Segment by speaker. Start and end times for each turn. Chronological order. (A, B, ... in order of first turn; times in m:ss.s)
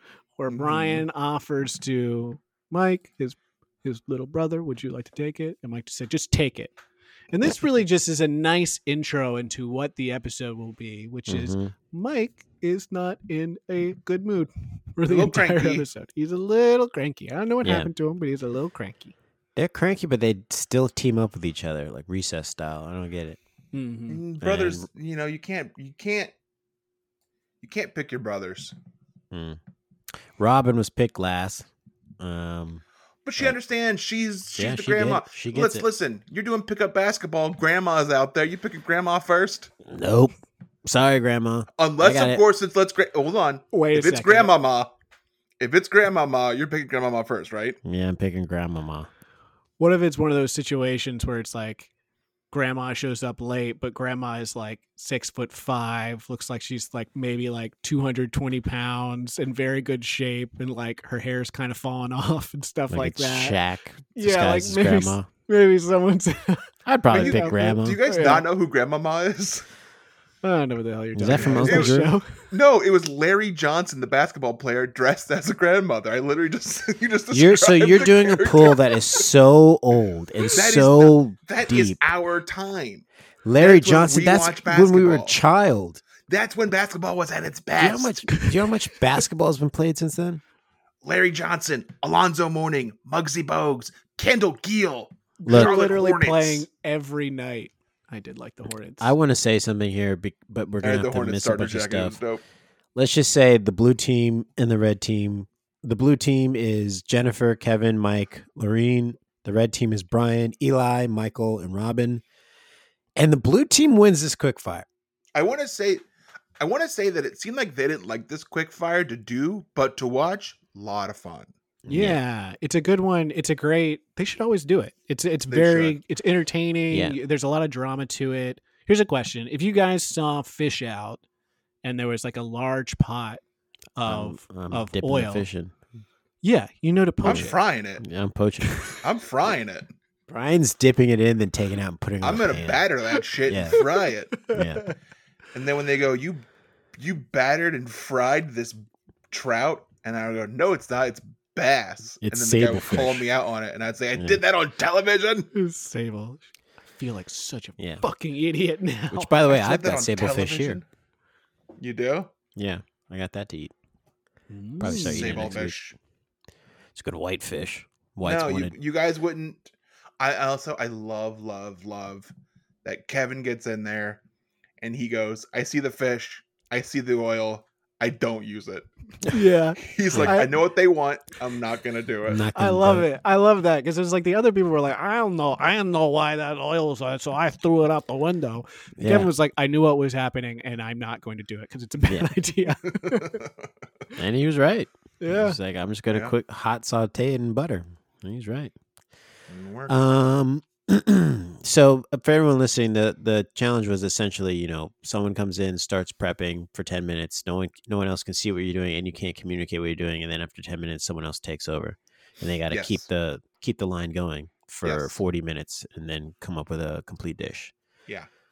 0:00.4-0:06.7 A
0:00.5-0:01.0 B
0:07.3-0:19.1 A
0:11.3-0:11.7 C
0:15.0-0:15.9 B
0:17.6-0:17.9 C
0:19.6-0:23.4 C
0:23.7-0:24.2 A
0:24.1-0:26.3 B
0:24.4-0:24.9 C
0:27.6-0:28.7 B
0:29.3-0:29.6 C
0:30.4-0:31.7 C
0:32.2-0:32.8 C
0:33.2-0:39.7 B
0:34.5-0:35.9 C
0:39.8-0:40.3 C
0:40.8-0:42.4 C
0:41.8-0:44.9 B
0:43.7-0:44.5 A
0:45.6-0:47.8 B
0:47.8-0:49.1 C
0:49.8-0:51.9 A
0:52.5-1:03.6 A
1:02.9-1:05.3 C
1:04.1-1:08.4 A
1:06.8-1:08.0 C
1:07.1-1:09.6 B
1:10.4-1:12.2 A
1:11.1-1:12.1 C
1:11.3-1:19.2 B
1:17.3-1:22.0 C
1:20.5-1:23.0 B
1:23.4-1:26.0 C
1:23.6-1:25.4 B
1:26.2-1:28.4 B
1:27.8-1:30.4 C
1:31.0-1:36.6 B
1:35.4-1:39.1 A
1:35.4-1:35.8 C
1:39.0-1:42.2 C
1:40.8-1:42.4 B
1:42.9-1:52.2 C
1:53.2-1:54.8 C
1:55.3-1:56.0 B
1:56.6-2:01.5 B
2:01.8-2:02.2 C
2:01.9-2:11.2 A
2:05.5-2:06.0 B
2:06.9-2:07.2 C
2:11.8-2:13.4 A
2:14.0-2:15.4 A
2:14.0-2:15.8 C
2:16.4-2:17.6 A
2:17.2-2:18.0 B
2:17.2-2:18.9 C
2:19.0-2:19.9 B
2:20.3-2:22.9 C
2:22.2-2:24.5 B
2:23.4-2:23.8 C
2:24.5-2:24.8 C
2:24.5-2:24.9 A
2:25.5-2:35.5 B
2:32.2-2:33.3 C
2:34.1-2:34.4 C
2:35.5-2:36.4 A
2:36.9-2:39.3 A
2:37.8-2:38.0 C
2:39.1-2:40.8 C
2:39.4-2:40.8 B
2:41.8-2:42.3 B
2:42.5-2:43.7 C
2:44.5-2:45.2 A
2:44.8-2:45.8 C
2:44.8-2:46.0 B
2:46.9-2:48.8 C
2:48.2-2:52.3 B
2:52.8-2:54.2 B
2:54.8-2:58.9 B
2:59.3-3:00.6 A
2:59.8-3:02.4 B
3:00.1-3:00.4 C
3:02.2-3:03.1 C
3:02.5-3:13.4 A
3:09.0-3:09.3 C
3:12.0-3:12.3 C
3:13.0-3:13.5 B
3:14.2-3:18.7 C
3:15.2-3:15.6 A
3:19.5-3:20.0 B
3:19.9-3:37.7 C
3:32.7-3:33.0 B
3:34.8-3:35.2 B